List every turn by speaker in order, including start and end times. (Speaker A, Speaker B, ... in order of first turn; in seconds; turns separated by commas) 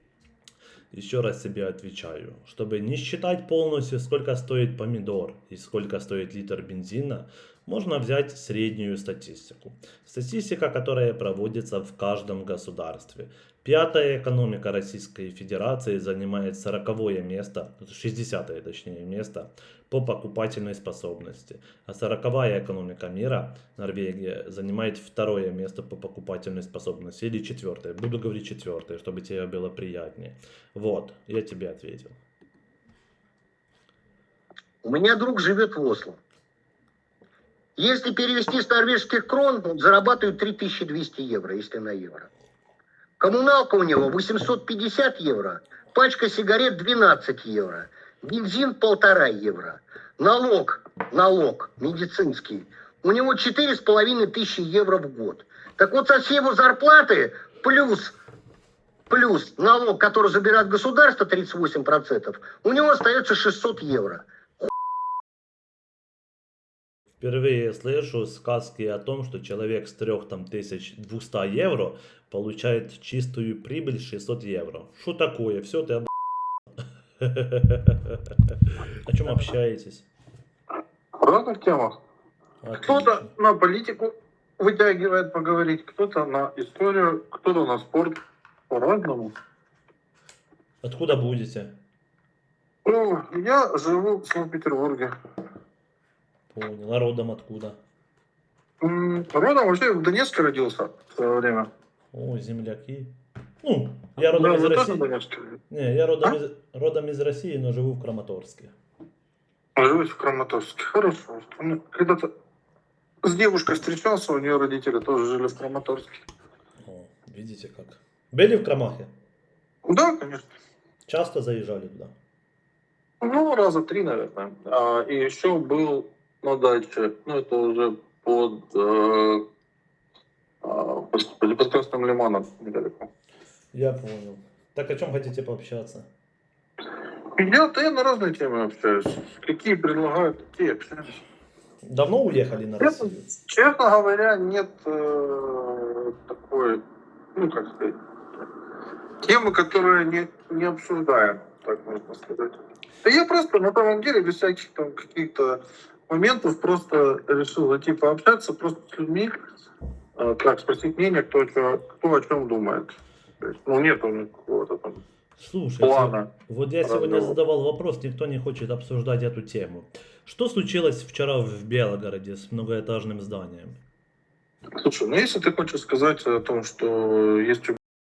Speaker A: 0.9-32.2, Speaker B: 34.8-36.2, Speaker B: 37.8-42.3, Speaker B: 43.2-58.1, Speaker B: 59.1-64.7, Speaker A: 67.2-76.1, Speaker A: 77.2-80.1, Speaker C: 81.2-82.0, Speaker A: 82.6-83.3, Speaker C: 82.8-89.3, Speaker A: 90.8-91.8, Speaker C: 92.9-95.2, Speaker A: 96.5-97.8, Speaker C: 98.8-101.7, Speaker A: 102.1-105.0, Speaker C: 104.3-105.6, Speaker A: 105.7-108.7, Speaker C: 109.8-112.3, Speaker C: 113.2-116.1, Speaker A: 116.8-119.1, Speaker C: 119.9-120.5, Speaker A: 121.1-122.1, Speaker C: 123.2-129.4, Speaker C: 130.6-133.1, Speaker A: 133.7-136.1, Speaker C: 137.4-141.2, Speaker A: 141.9-143.2, Speaker C: 142.8-146.8, Speaker C: 147.4-148.0, Speaker C: 149.2-159.3, Speaker C: 160.2-165.0, Speaker A: 165.4-173.8, Speaker C: 165.8-166.3, Speaker C: 166.8-167.3, Speaker C: 174.8-177.8